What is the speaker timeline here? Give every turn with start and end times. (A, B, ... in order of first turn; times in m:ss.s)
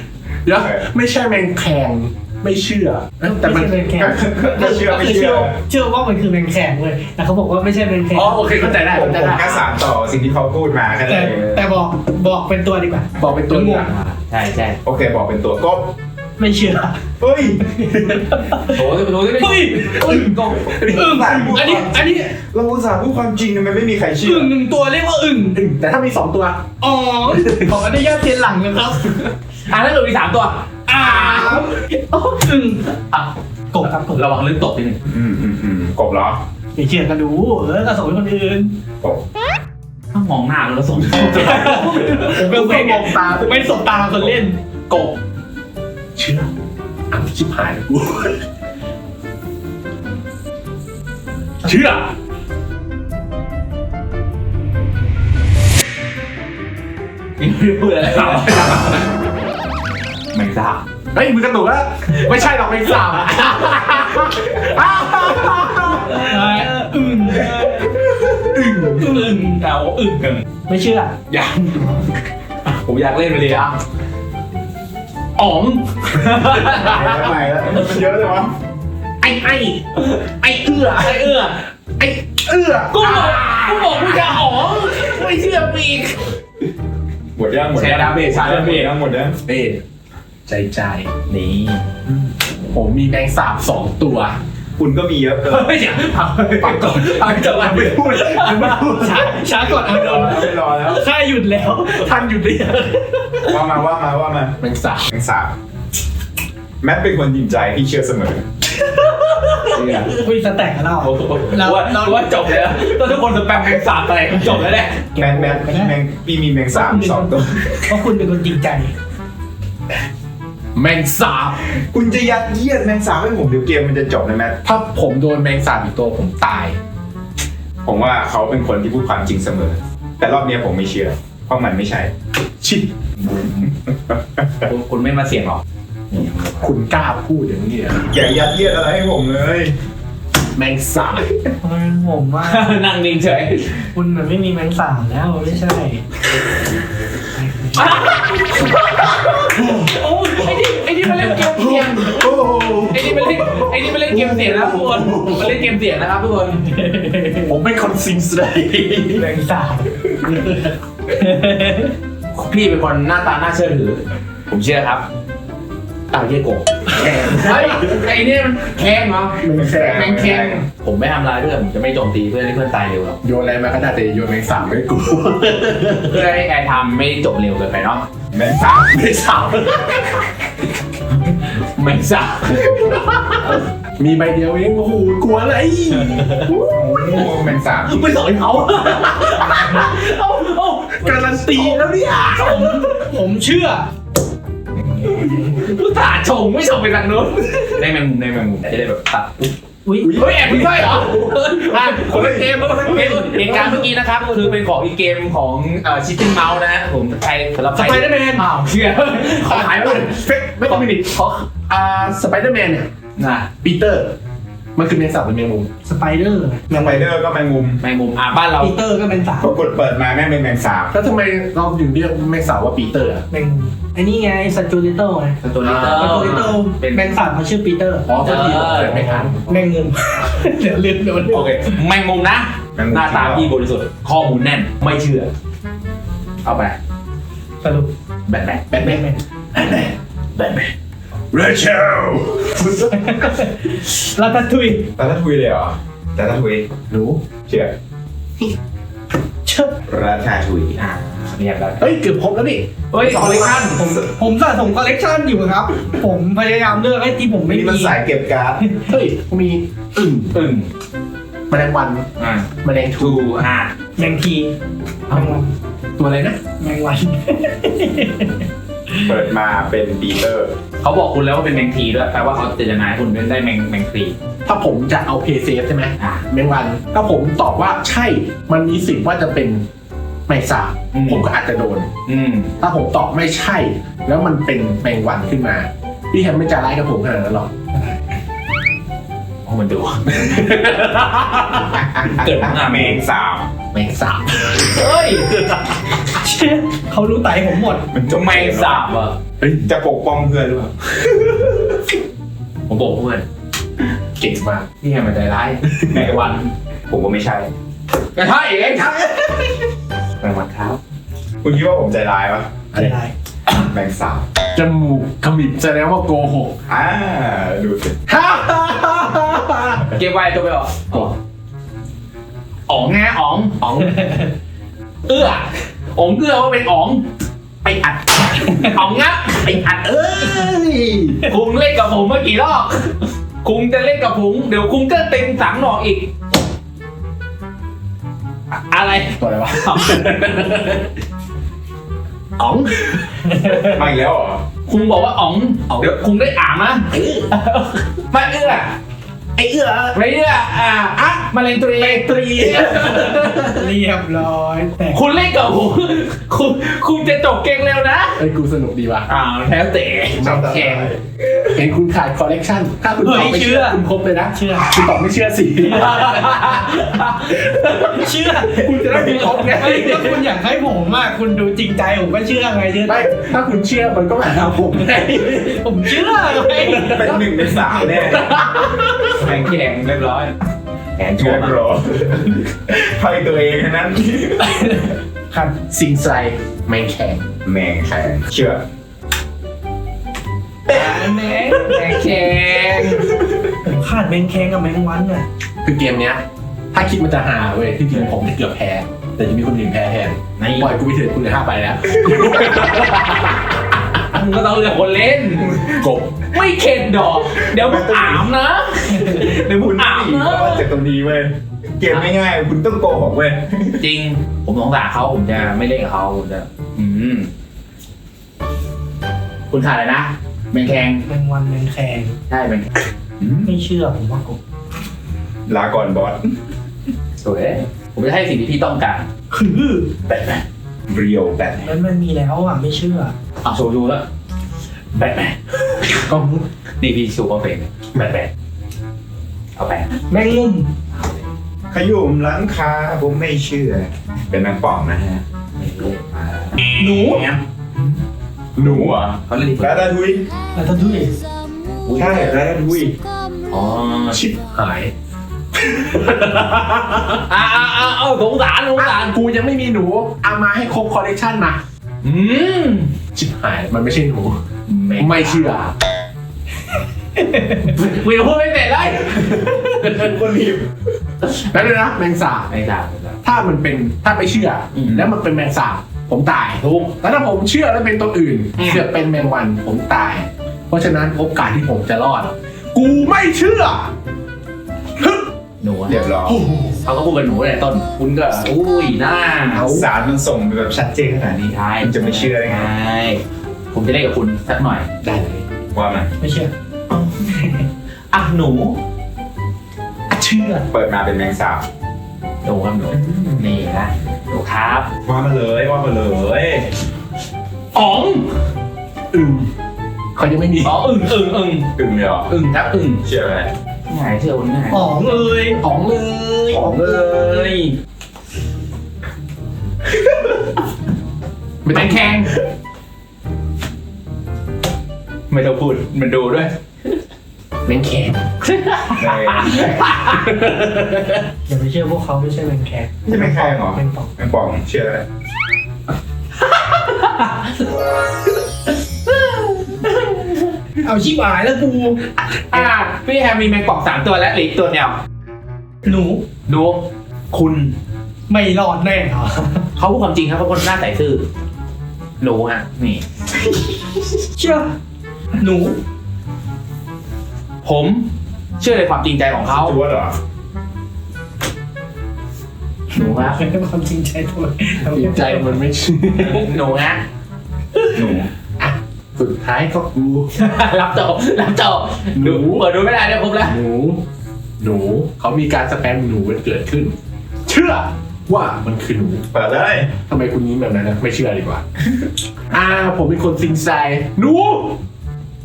0:00.4-0:03.8 A
0:00.6-0:00.8 B
0:03.4-0:08.6 C
0:04.0-0:05.6 B
0:08.1-0:09.6 A
0:08.6-0:11.6 B
0:11.1-0:13.9 C
0:13.2-0:13.9 A
0:13.9-0:14.8 D
0:14.8-0:15.9 B
0:16.4-0:17.0 C
0:17.2-0:17.6 B
0:17.7-0:20.3 C
0:18.6-0:21.2 D
0:19.9-0:21.0 A
0:20.8-0:24.5 B
0:20.9-0:22.3 C
0:24.2-0:25.6 C
0:25.5-0:26.7 A
0:26.8-0:29.2 C
0:27.3-0:27.8 A
0:29.7-0:32.3 D
0:30.9-0:32.8 C
0:32.9-0:33.3 D
0:33.7-0:34.2 C
0:34.0-0:35.0 D
0:35.1-0:36.4 B
0:36.8-0:38.8 C
0:40.1-0:42.3 D
0:41.2-0:43.8 A
0:41.4-0:44.6 C
0:46.2-0:46.5 A
0:47.1-0:48.4 A
0:51.6-0:52.1 A
0:57.4-0:59.0 D
0:58.1-0:59.0 A
1:00.3-1:00.8 D
1:01.1-1:06.3 A
1:03.0-1:04.7 D
1:05.4-1:06.7 D
1:06.1-1:08.0 C
1:07.3-1:07.6 D
1:08.5-1:10.4 D
1:08.6-1:09.0 A
1:09.0-1:09.6 C
1:10.7-1:11.2 C
1:11.3-1:12.1 D
1:12.7-1:13.8 D
1:15.4-1:17.3 D
1:16.6-1:18.5 B
1:19.2-1:21.3 A
1:20.1-1:21.6 D
1:22.0-1:25.2 A
1:22.9-1:26.3 D
1:27.4-1:29.4 B
1:27.8-1:28.9 D
1:29.5-1:29.8 A
1:30.5-1:31.1 A
1:31.3-1:31.8 D
1:32.7-1:34.4 A
1:34.8-1:35.8 B
1:35.5-1:38.9 D
1:36.6-1:39.4 A
1:38.9-1:42.3 C
1:39.7-1:41.1 B
1:41.9-1:43.0 A
1:43.4-1:44.6 B
1:44.6-1:45.1 A
1:45.1-1:45.5 B
1:46.8-1:48.4 B
1:48.8-1:53.0 C
1:49.7-1:50.2 D
1:51.0-1:55.1 D
1:55.2-1:56.0 C
1:55.2-1:58.0 B
1:56.7-1:57.3 C
1:57.9-1:58.9 C
2:00.8-2:01.6 A
2:01.7-2:04.6 B
2:04.6-2:06.8 A
2:07.8-2:12.1 B
2:12.6-2:12.9 A
2:13.3-2:14.7 B
2:13.4-2:13.6 D
2:14.6-2:16.7 D
2:16.6-2:18.1 A
2:18.1-2:19.8 B
2:20.6-2:21.3 A
2:21.6-2:22.8 C
2:22.4-2:23.9 D
2:23.9-2:26.0 C
2:27.3-2:28.1 C
2:27.8-2:32.3 D
2:29.5-2:29.9 A
2:31.3-2:35.6 A
2:32.9-2:36.6 D
2:36.6-2:37.5 C
2:37.5-2:39.3 A
2:39.2-2:39.9 C
2:40.2-2:40.7 A
2:41.1-2:42.0 C
2:42.3-2:45.1 D
2:46.1-2:47.9 A
2:46.9-2:53.2 D
2:49.4-2:50.2 A
2:49.5-2:50.6 B
2:53.2-2:56.2 A
2:56.0-2:58.1 D
2:58.3-2:58.9 B
2:58.9-3:00.0 A
3:01.6-3:03.5 D
3:04.0-3:06.5 A
3:06.1-3:07.3 D
3:06.5-3:08.2 B
3:07.8-3:11.8 D
3:11.0-3:12.9 A
3:12.4-3:13.0 D
3:12.4-3:13.9 C
3:14.8-3:19.5 D
3:15.1-3:15.4 A
3:19.8-3:20.2 C
3:20.0-3:23.9 A
3:20.2-3:31.5 D
3:27.8-3:28.4 A
3:27.8-3:28.4 C
3:29.2-3:31.1 A
3:31.7-3:32.9 A
3:33.2-3:33.5 D
3:33.6-3:34.2 A
3:34.8-3:35.7 A
3:35.8-3:37.1 C
3:36.7-3:37.8 B
3:37.8-3:38.8 D
3:38.6-3:39.5 C
3:39.4-3:40.9 B
3:40.9-3:43.2 A
3:43.3-3:48.1 C
3:45.4-3:47.1 D
3:45.6-3:46.6 A
3:48.1-3:49.4 A
3:48.2-3:49.5 D
3:49.5-3:51.8 C
3:51.3-3:55.3 D
3:52.8-3:53.5 B
3:56.4-3:56.8 D
3:57.6-3:57.9 C
3:58.3-3:59.0 D
3:58.7-3:59.2 C
3:59.6-4:00.7 D
4:01.4-4:02.9 A
4:01.8-4:02.5 B
4:02.9-4:04.9 C
4:05.0-4:06.7 B
4:06.9-4:07.2 A
4:07.5-4:07.7 B
4:09.5-4:09.7 C
4:09.9-4:10.8 B
4:10.8-4:11.9 D
4:11.8-4:12.7 A
4:12.9-4:13.8 D
4:13.2-4:18.0 C
4:17.5-4:18.6 B
4:18.9-4:20.4 A
4:20.3-4:20.7 D
4:21.5-4:22.1 A
4:22.2-4:23.7 D
4:22.6-4:23.2 A
4:24.0-4:24.6 C
4:25.1-4:25.4 A
4:25.1-4:25.5 C
4:26.0-4:26.4 A
4:26.6-4:29.1 C
4:29.0-4:30.5 B
4:30.8-4:34.2 D
4:34.5-4:39.7 A
4:36.0-4:36.2 D
4:40.3-4:41.9 A
4:40.9-4:41.3 D
4:42.1-4:42.5 D
4:42.6-4:47.5 A
4:49.5-4:53.0 D
4:50.3-4:50.9 A
4:51.7-4:53.5 B
4:53.7-4:54.8 A
4:54.6-4:55.6 D
4:56.2-4:57.9 C
4:57.9-4:58.9 B
4:58.1-4:59.2 D
4:59.4-4:59.7 A
4:59.7-5:00.7 B
5:02.7-5:03.2 D
5:04.2-5:04.6 A
5:04.8-5:06.5 D
5:05.9-5:06.4 B
5:06.9-5:07.5 B
5:08.2-5:09.5 D
5:10.2-5:10.8 D
5:11.4-5:12.5 B
5:12.7-5:13.1 C
5:13.5-5:14.3 B
5:14.6-5:16.6 A
5:16.7-5:18.0 B
5:18.1-5:19.9 A
5:19.9-5:21.2 D
5:22.7-5:23.9 D
5:23.6-5:24.0 A
5:23.9-5:24.3 C
5:25.1-5:27.1 D
5:27.6-5:28.1 A
5:28.3-5:30.4 D
5:29.4-5:31.2 A
5:31.2-5:36.1 D
5:38.5-5:40.5 D
5:39.2-5:40.9 A
5:42.4-5:43.8 A
5:43.7-5:44.4 B
5:44.7-5:48.7 D
5:46.9-5:47.2 A
5:49.4-5:50.0 A
5:49.9-5:53.3 D
5:51.8-5:53.6 A
5:53.5-5:55.0 C
5:54.9-5:58.2 D
5:58.2-5:59.1 A
5:59.1-6:00.9 D
6:00.2-6:00.8 A
6:00.2-6:01.1 B
6:01.5-6:06.3 A
6:03.0-6:03.8 C
6:04.3-6:04.9 C
6:05.6-6:08.1 D
6:07.8-6:13.1 C
6:08.5-6:10.3 A
6:12.9-6:15.6 A
6:15.4-6:17.3 C
6:16.5-6:17.0 A
6:16.8-6:19.6 B
6:17.8-6:18.7 A
6:19.0-6:20.3 D
6:21.0-6:21.6 D
6:21.2-6:24.8 B
6:25.3-6:27.2 A
6:27.4-6:28.6 B
6:30.7-6:33.1 D
6:30.7-6:31.8 C
6:33.6-6:35.2 C
6:35.6-6:43.4 A
6:40.4-6:40.7 D
6:42.1-6:43.4 D
6:44.1-6:45.8 D
6:45.5-6:45.8 B
6:45.8-6:46.1 A
6:46.3-6:50.7 D
6:47.3-6:48.3 B
6:48.9-6:53.8 B
6:53.8-6:57.3 D
6:59.5-7:01.0 D
7:01.1-7:02.2 C
7:02.3-7:02.7 D
7:03.2-7:03.5 B
7:03.5-7:04.4 C
7:05.5-7:06.3 B
7:07.2-7:09.1 D
7:09.3-7:09.9 C
7:10.1-7:10.4 D
7:10.9-7:11.7 B
7:11.6-7:13.2 C
7:13.4-7:14.0 D
7:15.0-7:16.0 D
7:15.9-7:16.5 A
7:16.8-7:18.3 D
7:19.6-7:20.0 D
7:20.1-7:20.7 C
7:20.9-7:21.2 D
7:21.7-7:25.2 B
7:25.6-7:27.9 D
7:26.8-7:27.3 C
7:28.6-7:29.0 A
7:28.6-7:30.3 B
7:29.3-7:29.9 D
7:30.6-7:31.2 C
7:31.8-7:32.4 D
7:32.0-7:33.0 B
7:33.5-7:34.2 D
7:34.1-7:34.9 A
7:35.6-7:37.2 A
7:37.3-7:39.2 D
7:38.8-7:41.6 A
7:42.0-7:42.9 D
7:43.1-7:44.4 A
7:44.7-7:45.7 D
7:45.0-7:45.7 A
7:47.5-7:49.9 D
7:49.8-7:50.7 B
7:51.5-7:52.5 A
7:52.5-7:53.2 D
7:53.2-8:03.9 A
7:54.8-7:55.1 D
7:56.6-7:56.9 D
7:58.6-7:58.9 D
8:05.0-8:05.3 A
8:05.6-8:06.0 D
8:05.9-8:06.4 B
8:06.3-8:06.8 A
8:06.8-8:09.7 D
8:09.5-8:09.9 A
8:09.6-8:12.7 B
8:11.4-8:14.9 D
8:15.0-8:15.4 A
8:15.7-8:16.1 B
8:16.2-8:16.5 C
8:18.1-8:18.8 D
8:20.1-8:20.7 A
8:20.7-8:21.6 B
8:22.4-8:24.9 D
8:22.9-8:23.4 B
8:25.0-8:26.7 B
8:27.7-8:28.3 D
8:29.1-8:29.5 A
8:30.2-8:30.8 A
8:30.6-8:31.8 D
8:31.8-8:32.3 B
8:32.3-8:33.0 D
8:33.0-8:33.5 B
8:33.9-8:34.9 D
8:34.7-8:35.6 C
8:35.6-8:37.4 A
8:36.5-8:37.8 D
8:41.6-8:42.3 A
8:41.7-8:42.3 D
8:45.3-8:47.0 D
8:47.7-8:48.2 A
8:48.4-8:50.3 D
8:49.0-8:49.9 B
8:50.1-8:51.2 A
8:51.5-8:54.1 C
8:53.1-8:55.0 B
8:56.7-8:57.3 D
8:59.8-9:00.2 D
9:00.8-9:02.0 C
9:02.5-9:05.0 D
9:05.8-9:06.2 C
9:06.5-9:07.8 D
9:08.3-9:09.6 C
9:09.8-9:11.3 D
9:12.2-9:13.0 D
9:14.4-9:14.7 C
9:15.4-9:15.8 C
9:17.6-9:18.1 D
9:18.6-9:19.8 D
9:19.4-9:20.2 B
9:22.9-9:23.4 D
9:23.2-9:25.6 C
9:24.8-9:26.5 A
9:26.2-9:27.0 D
9:27.9-9:28.3 B
9:28.6-9:30.3 A
9:30.4-9:33.6 D
9:32.2-9:32.7 A
9:33.4-9:34.0 A
9:34.6-9:39.2 A
9:39.3-9:39.9 B
9:40.1-9:41.6 A
9:42.5-9:44.8 A